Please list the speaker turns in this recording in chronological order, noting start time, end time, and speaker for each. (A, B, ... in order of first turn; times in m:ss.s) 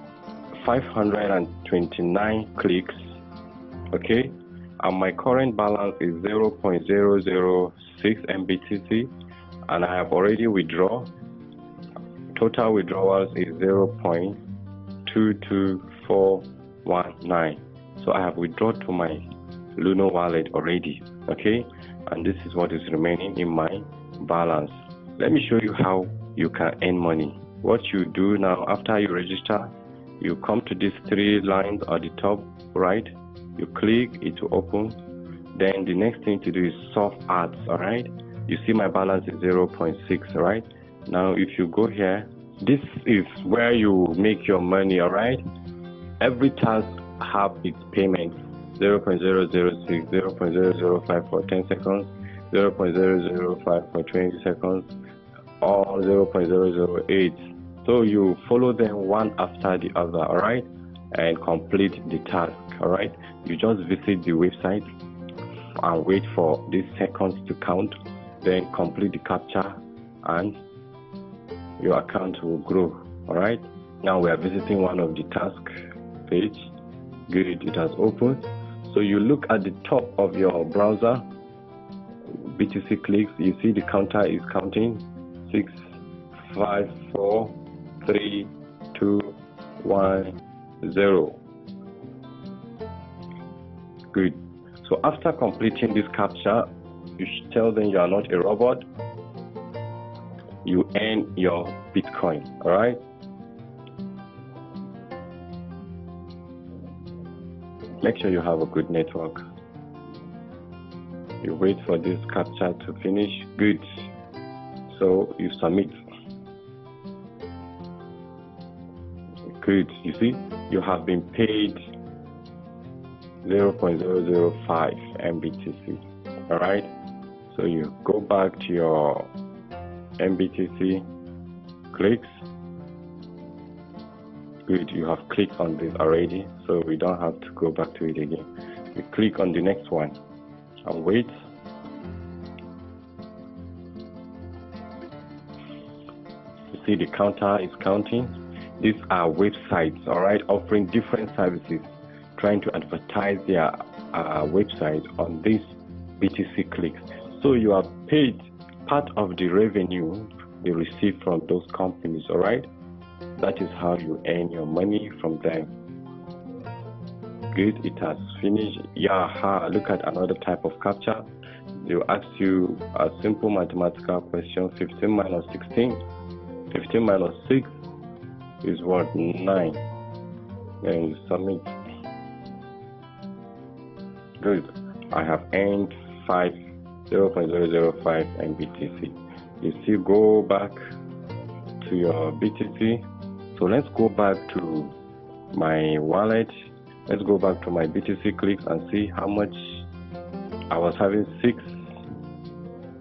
0:00.6-0:03.0 A
0:03.9-0:09.1 A
0:09.7-0:11.1 A
0:12.3-0:14.4 A
0:15.0-0:19.2 A
0:19.8-0:35.0 A
0:35.5-0:45.4 A
0:46.2-0:54.9 A
0:55.6-1:04.9 A
1:05.8-1:10.6 A
1:11.8-1:15.7 A
1:16.3-1:16.7 A
1:17.3-1:21.2 A
1:22.3-1:25.8 A
1:26.5-1:31.4 A
1:34.1-1:38.8 A
1:40.6-1:43.0 A
1:48.0-1:49.4 A
1:51.4-1:53.8 A
1:54.9-1:56.0 A
1:59.6-2:01.8 A
2:03.4-2:06.9 A
2:07.5-2:09.3 A
2:10.2-2:11.0 A
2:11.9-2:12.4 A
2:14.7-2:20.2 A
2:20.8-2:21.4 A
2:26.7-2:42.7 A
2:43.4-2:45.7 A
2:47.5-2:51.3 A
2:51.8-2:56.0 A
2:56.7-2:57.7 A
2:58.6-2:59.8 A
3:00.8-3:01.7 A
3:04.4-3:06.6 A
3:07.1-3:10.8 A
3:11.8-3:14.9 A
3:15.5-3:16.5 A
3:17.1-3:19.8 A
3:20.7-3:21.7 A